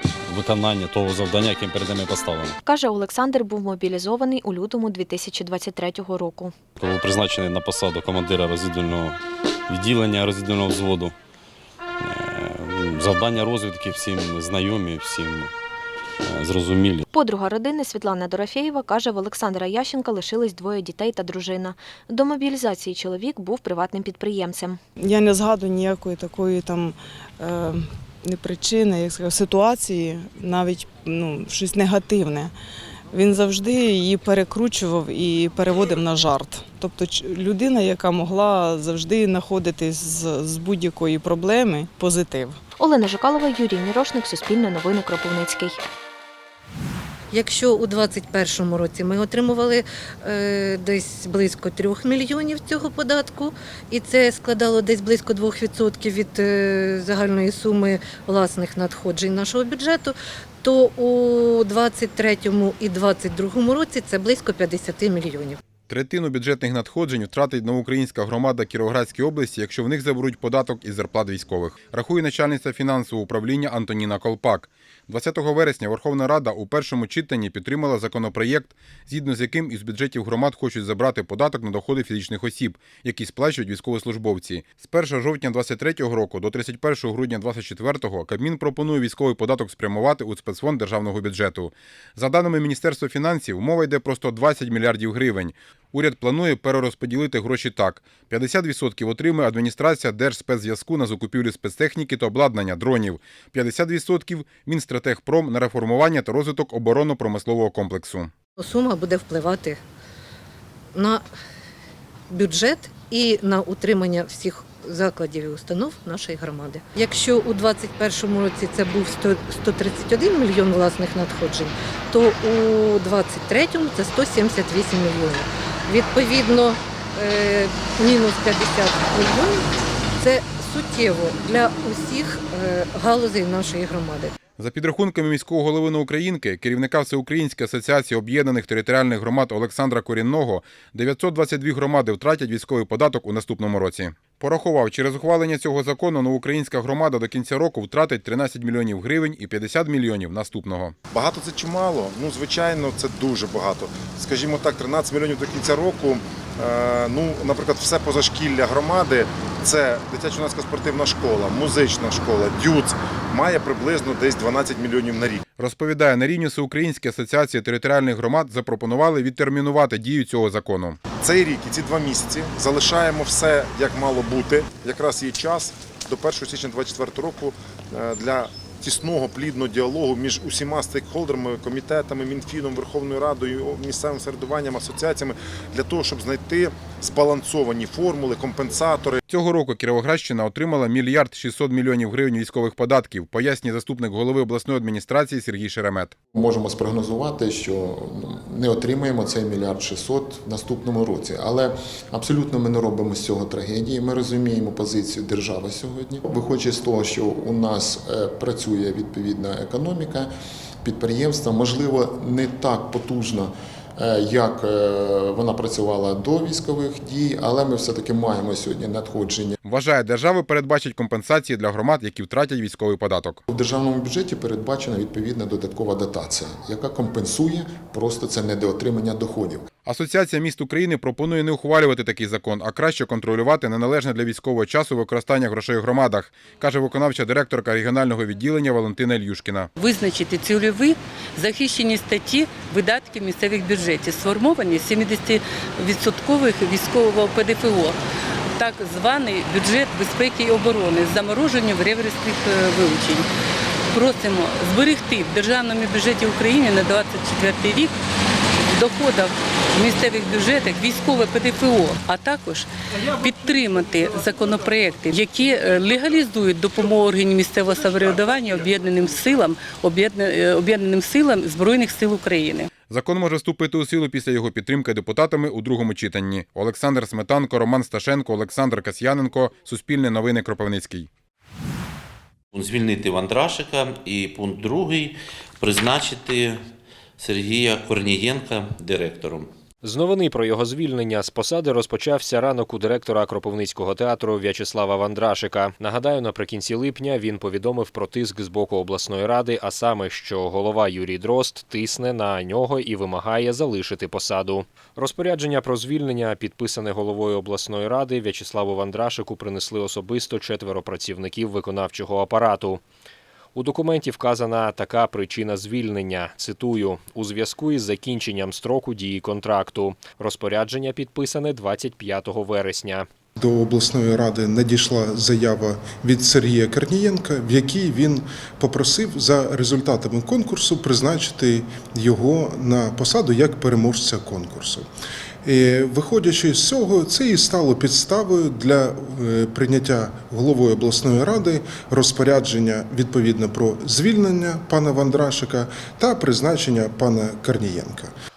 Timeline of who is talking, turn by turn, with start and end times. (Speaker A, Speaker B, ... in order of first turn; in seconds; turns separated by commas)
Speaker A: 0.3-2.6, Speaker B: 2.6-6.5, Speaker A: 6.8-11.2, Speaker A: 12.0-15.5, Speaker A: 16.2-17.0, Speaker B: 17.1-24.8, Speaker C: 25.0-32.5, Speaker C: 33.1-42.5, Speaker B: 42.8-45.8, Speaker D: 47.3-65.6, Speaker E: 65.9-108.3, Speaker D: 108.6-109.8, Speaker D: 111.0-111.2, Speaker D: 112.3-129.6, Speaker D: 130.2-134.3, Speaker E: 134.6-150.9, Speaker F: 151.1-165.4, Speaker E: 165.6-171.0, Speaker F: 171.2-189.2, Speaker E: 189.3-196.2, Speaker G: 196.3-210.3, Speaker G: 210.8-219.6, Speaker E: 219.6-223.4, Speaker G: 223.5-229.7, Speaker E: 229.8-239.7, Speaker H: 239.8-248.0, Speaker H: 248.6-253.3, Speaker H: 253.9-257.9, Speaker H: 258.7-272.7, Speaker E: 272.9-281.1, Speaker I: 282.5-286.6, Speaker I: 287.2-289.5, Speaker J: 289.8-312.8, Speaker J: 313.6-323.1, Speaker K: 323.4-334.9, Speaker K: 335.4-348.1